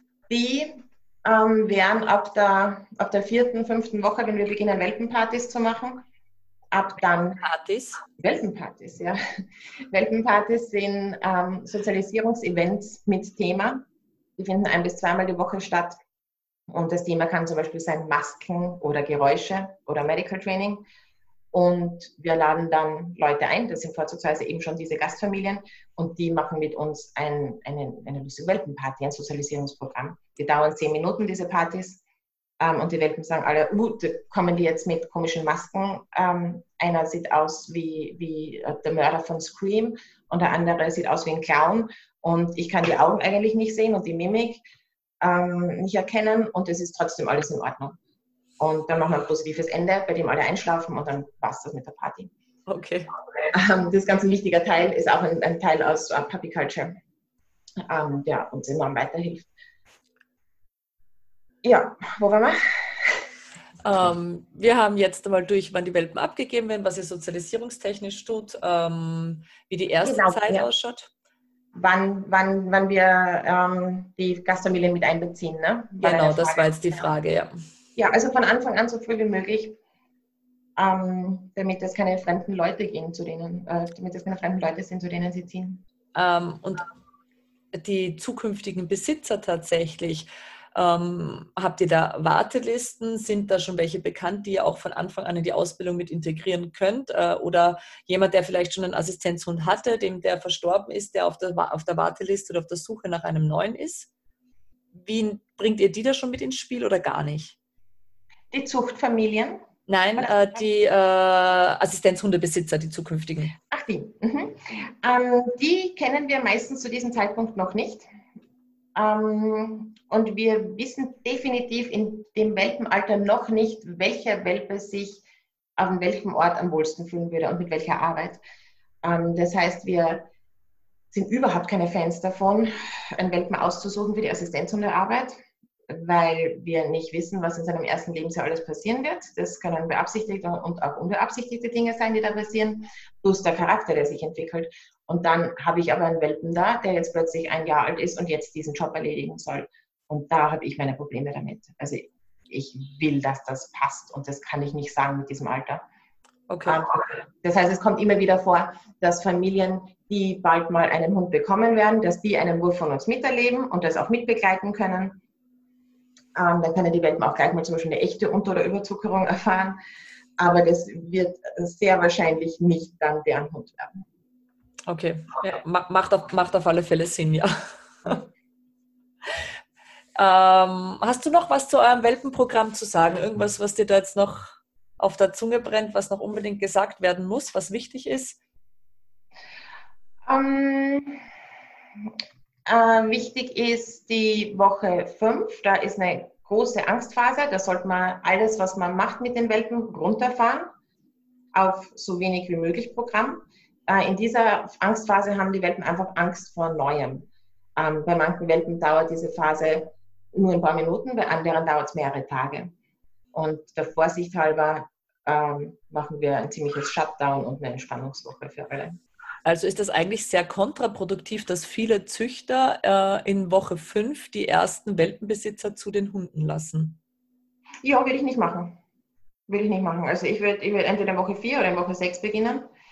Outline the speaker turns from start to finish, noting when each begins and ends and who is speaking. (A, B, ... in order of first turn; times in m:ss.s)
0:00.3-0:06.0 A
0:06.7-0:07.4 A
0:07.4-0:08.0 B
0:08.2-0:09.2 A
0:09.9-0:13.8 A
0:14.4-0:16.0 A
0:16.7-0:20.8 A
0:21.5-0:32.0 A
0:32.6-0:44.6 A
0:45.2-0:48.0 A
0:48.6-0:52.3 A
0:52.7-0:53.1 B
0:53.5-0:57.0 A
0:57.8-0:59.5 A
1:01.6-1:03.2 A
1:03.8-1:11.1 B
1:10.0-1:10.7 A
1:11.7-1:17.1 A
1:16.0-1:17.5 B
1:18.0-1:19.8 A
1:20.8-1:25.8 A
1:26.1-1:26.8 B
1:27.7-1:44.1 B
1:44.9-1:47.6 B
1:48.5-1:49.6 A
1:49.9-1:53.5 B
1:50.2-1:50.6 A
1:53.7-1:58.0 A
1:58.9-2:05.2 A
2:05.8-2:08.4 A
2:09.0-2:10.2 A
2:11.1-2:15.4 A
2:15.9-2:35.8 A
2:36.5-2:36.8 B
2:36.6-2:45.2 A
2:46.3-2:49.8 A
2:50.4-2:54.0 A
2:54.9-2:58.2 B
3:00.2-3:08.4 B
3:10.3-3:11.2 A
3:12.6-3:20.7 A
3:21.5-3:32.7 A
3:33.3-3:39.0 A
3:39.4-3:47.0 B
3:47.8-3:48.8 A
3:49.5-3:52.7 A